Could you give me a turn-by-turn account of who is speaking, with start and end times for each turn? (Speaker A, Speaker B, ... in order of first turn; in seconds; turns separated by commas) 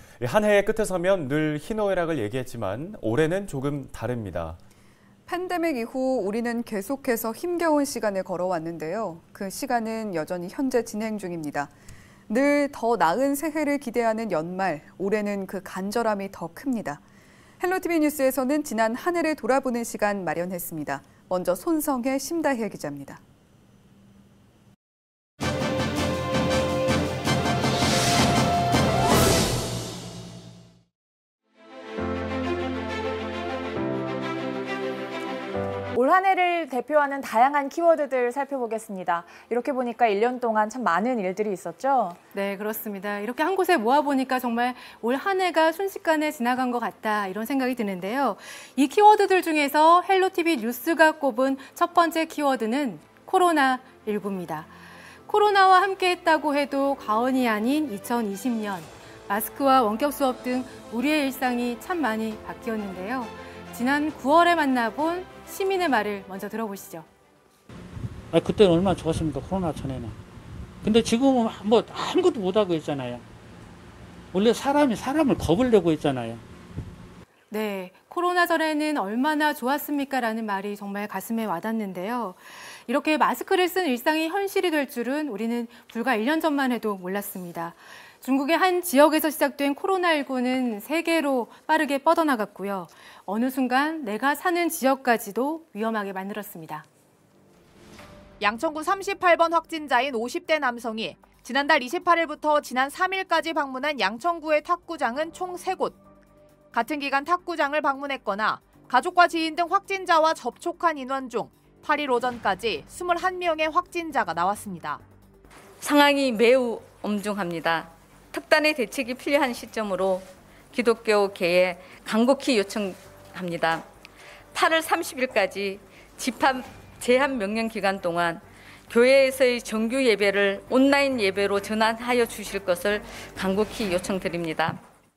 Speaker A: 0.2-4.6, Speaker B: 5.3-11.7, Speaker B: 12.3-17.0, Speaker B: 17.6-23.2, Speaker C: 35.9-42.2, Speaker D: 42.3-54.7, Speaker D: 55.3-67.0, Speaker E: 68.3-70.1, Speaker E: 70.8-73.2, Speaker E: 74.3-76.4, Speaker D: 77.5-96.8, Speaker F: 98.4-106.0, Speaker F: 106.7-115.0, Speaker G: 115.8-123.9, Speaker G: 124.5-134.8